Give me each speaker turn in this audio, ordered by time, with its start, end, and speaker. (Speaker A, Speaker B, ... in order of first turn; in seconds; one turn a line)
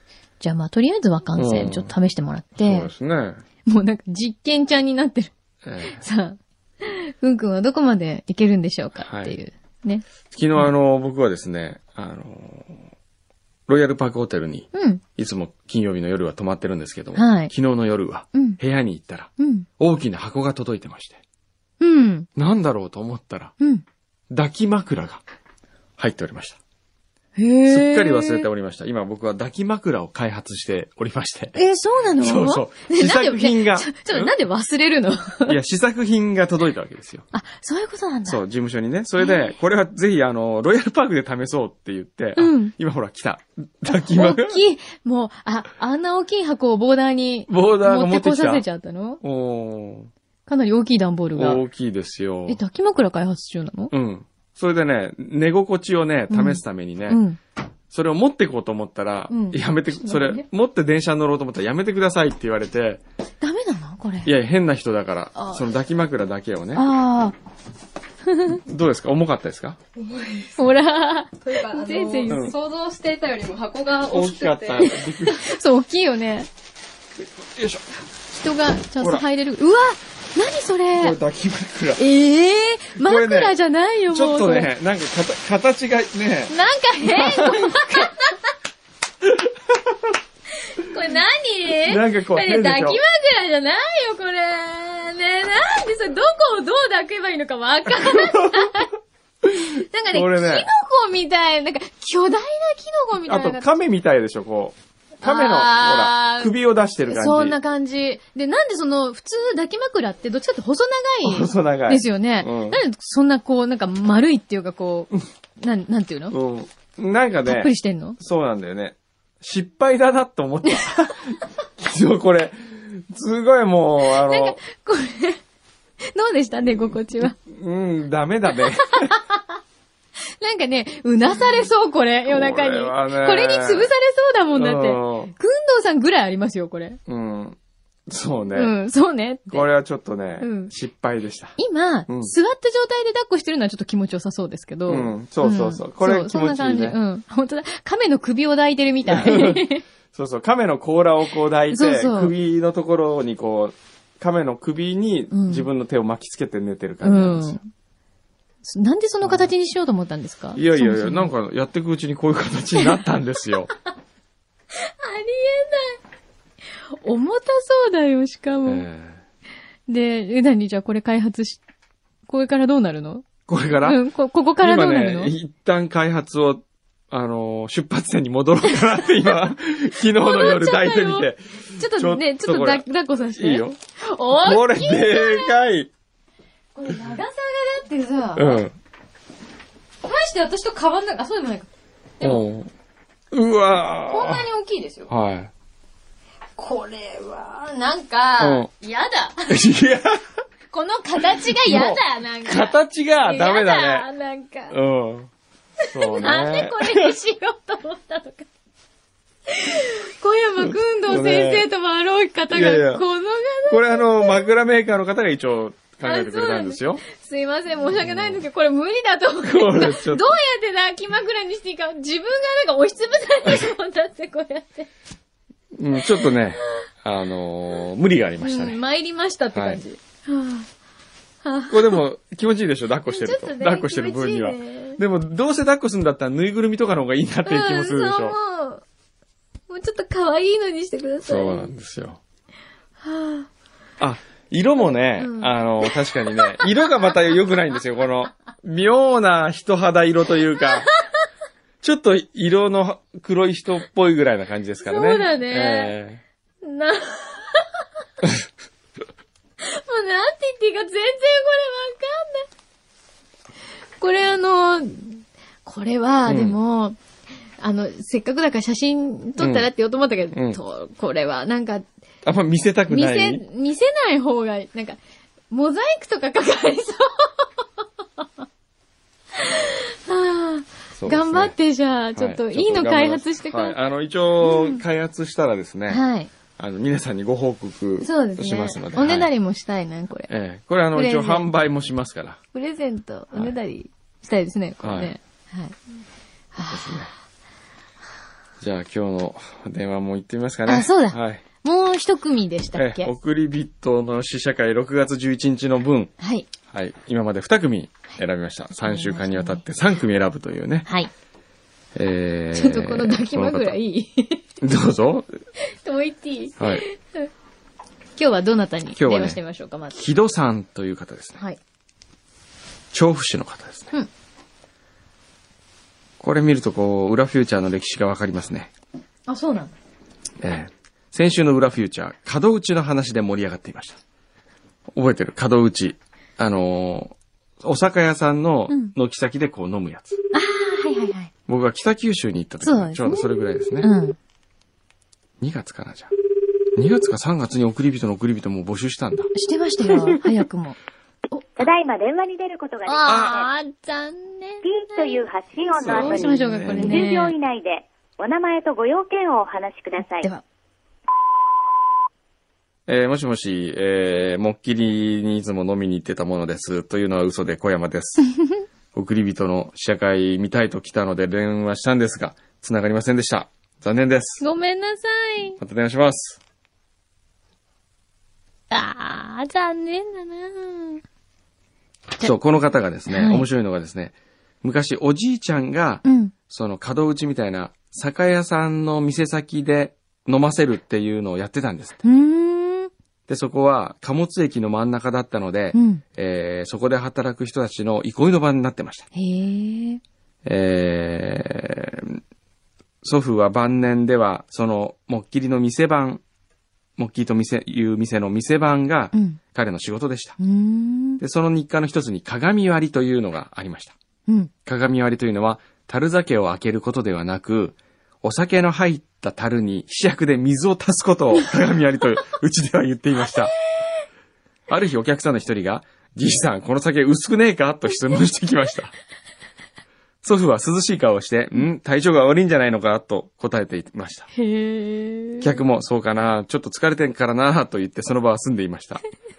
Speaker A: 0.4-2.9
Speaker B: 1.4-1.9
Speaker B: 2.6-3.4
Speaker A: 3.6-5.3
Speaker B: 5.6-6.0
Speaker A: 5.8-10.1
Speaker B: 9.0-9.3
Speaker B: 10.3-12.9
Speaker B: 13.7-21.2
Speaker A: 14.7-15.0
Speaker A: 17.1-17.5
Speaker A: 18.3-18.6
Speaker A: 19.4-19.7
Speaker A: 21.8-22.3
Speaker B: 22.4-23.5
Speaker B: 24.3-25.2
Speaker B: 26.0-26.6
Speaker A: 27.4-28.5
Speaker B: 27.6-31.6
Speaker A: 31.5-35.6
Speaker B: 32.2-34.3
Speaker B: 35.5-37.2
Speaker A: 37.3-38.4
Speaker B: 38.2-44.6
Speaker A: 39.2-39.5
Speaker A: 42.4-42.7
Speaker A: 43.9-49.2
Speaker B: 47.5-48.6
Speaker B: 49.2-50.1
Speaker A: 50.5-51.6
Speaker B: 51.4-52.6
Speaker A: 52.5-53.9
Speaker B: 53.9-57.2
Speaker A: 56.3-57.4
Speaker B: 57.9-63.0
Speaker A: 59.3-60.5
Speaker A: 63.4-64.3
Speaker B: 64.2-66.8
Speaker A: 65.3-65.6
Speaker A: 66.7-67.3
Speaker A: 68.3-68.6
Speaker B: 68.5-69.8
Speaker C: 70.0-70.6
Speaker A: 70.6-72.5
Speaker C: 71.4-74.9
Speaker B: 72.3-72.5
Speaker B: 74.0-75.5
Speaker A: 74.8-76.5
Speaker B: 77.2-77.9
Speaker A: 78.3-81.2
Speaker B: 79.0-79.2
Speaker B: 80.9-82.0
Speaker A: 82.0-84.7
Speaker B: 83.0-83.5
Speaker B: 84.1-88.1
Speaker A: 86.5-88.5
Speaker B: 89.2-90.1
Speaker A: 90.7-98.9
Speaker B: 91.8-93.0
Speaker B: 97.9-98.8
Speaker A: 99.5-103.7
Speaker B: 100.1-100.7
Speaker B: 103.3-107.6
Speaker A: 105.2-106.5
Speaker A: 107.1-116.3
Speaker B: 111.2-112.8
Speaker B: 116.3-124.6
Speaker A: 117.5-118.2
Speaker A: 124.0-125.4
Speaker A: 126.0-127.3
Speaker B: 127.3-129.1
Speaker A: 128.9-129.4
Speaker A: 130.4-137.0
Speaker B: 132.3-133.9
Speaker B: 134.5-135.3
Speaker B: 137.1-138.7
Speaker A: 138.5-139.7
Speaker B: 139.5-141.6
Speaker A: 140.4-140.7
Speaker A: 141.6-149.8
Speaker B: 142.1-142.3
Speaker B: 144.9-147.0
Speaker B: 149.1-157.6
Speaker A: 151.7-152.3
Speaker A: 155.3-155.7
Speaker A: 157.0-157.7
Speaker A: 158.6-161.3
Speaker B: 160.5-163.7
Speaker A: 164.7-166.0
Speaker A: 166.9-168.8
Speaker B: 168.7-169.2
Speaker A: 169.9-171.6
Speaker A: 172.3-173.2
Speaker B: 173.5-174.0
Speaker A: 173.8-175.3
Speaker B: 174.6-183.8
Speaker A: 180.1-185.5
Speaker B: 184.4-185.9
Speaker A: 186.7-188.6
Speaker B: 188.3-188.8
Speaker A: 190.0-191.7
Speaker B: 192.2-192.7
Speaker B: 193.3-194.4
Speaker A: 194.1-195.1
Speaker B: 195.1-195.5
Speaker A: 196.6-199.6
Speaker B: 198.4-198.7
Speaker B: 199.5-200.3
Speaker A: 200.7-204.8
Speaker B: 201.4-204.1
Speaker B: 204.7-205.3
Speaker B: 205.9-207.1
Speaker A: 205.9-208.5
Speaker A: 209.5-214.5
Speaker B: 210.6-211.7
Speaker B: 212.5-213.0
Speaker B: 213.7-217.0
Speaker A: 216.0-224.9
Speaker B: 217.9-218.4
Speaker B: 219.4-220.3
Speaker B: 225.7-228.8
Speaker A: 225.9-226.4
Speaker A: 228.4-230.7
Speaker B: 229.5-229.8
Speaker A: 231.4-232.0
Speaker B: 231.7-238.4
Speaker A: 233.1-235.0
Speaker A: 237.4-238.8
Speaker A: 239.7-241.7
Speaker B: 241.2-242.2
Speaker A: 243.0-243.5
Speaker B: 244.0-250.9
Speaker A: 245.2-247.1
Speaker B: 251.8-256.2
Speaker A: 254.8-256.0
Speaker A: 256.6-257.8
Speaker A: 259.6-262.5
Speaker A: 264.0-267.0
Speaker B: 266.3-266.6
Speaker A: 267.6-271.8
Speaker B: 269.4-269.7
Speaker B: 270.3-270.6
Speaker B: 272.2-273.4
Speaker A: 272.9-275.0
Speaker A: 275.5-277.4
Speaker A: 279.4-283.8
Speaker B: 280.9-281.5
Speaker B: 282.1-286.0
Speaker A: 284.4-284.8
Speaker A: 285.9-286.3
Speaker B: 286.6-289.3
Speaker A: 288.0-290.3
Speaker B: 290.3-292.4
Speaker A: 290.9-291.5
Speaker A: 292.5-295.8
Speaker B: 294.8-295.1
Speaker A: 296.5-297.1
Speaker B: 296.6-297.1
Speaker B: 298.6-301.4
Speaker A: 300.6-303.1
Speaker B: 302.7-306.1
Speaker A: 306.2-306.5
Speaker B: 306.7-310.9
Speaker A: 308.8-309.6
Speaker A: 310.9-311.1
Speaker B: 311.9-313.8
Speaker A: 312.5-314.4
Speaker B: 314.6-315.3
Speaker A: 315.8-317.3
Speaker B: 316.6-316.8
Speaker A: 318.2-320.0
Speaker B: 318.9-319.4
Speaker B: 319.9-321.4
Speaker B: 322.9-323.9
Speaker B: 326.2-328.7
Speaker A: 329.3-329.7
Speaker B: 330.4-334.0
Speaker B: 334.9-340.2
Speaker A: 338.7-338.9
Speaker A: 340.3-341.3
Speaker B: 341.5-343.9
Speaker A: 342.6-343.3
Speaker A: 343.8-344.2
Speaker B: 345.4-346.1
Speaker B: 346.7-349.3
Speaker A: 349.3-350.8
Speaker B: 349.8-350.2
Speaker A: 351.3-351.6
Speaker D: 351.6-353.5
Speaker A: 352.8-355.3
Speaker B: 353.1-353.4
Speaker D: 354.6-360.3
Speaker B: 355.7-357.1
Speaker A: 355.8-357.3
Speaker A: 360.0-360.4
Speaker B: 362.9-368.2
Speaker B: 368.9-374.4
Speaker A: 374.4-375.6
Speaker B: 375.6-376.4
Speaker A: 378.7-381.0
Speaker B: 382.2-392.0
Speaker A: 383.1-383.5
Speaker A: 386.0-386.3
Speaker A: 392.0-392.9
Speaker B: 393.3-399.1
Speaker A: 395.7-396.0
Speaker A: 399.1-400.0
Speaker B: 400.4-402.2
Speaker B: 403.0-406.2
Speaker B: 407.0-410.4
Speaker A: 409.1-409.4
Speaker A: 410.4-411.2
Speaker B: 411.2-413.9
Speaker B: 414.6-423.5
Speaker B: 424.7-428.9
Speaker B: 430.2-434.3
Speaker A: 434.3-435.6
Speaker B: 435.4-439.0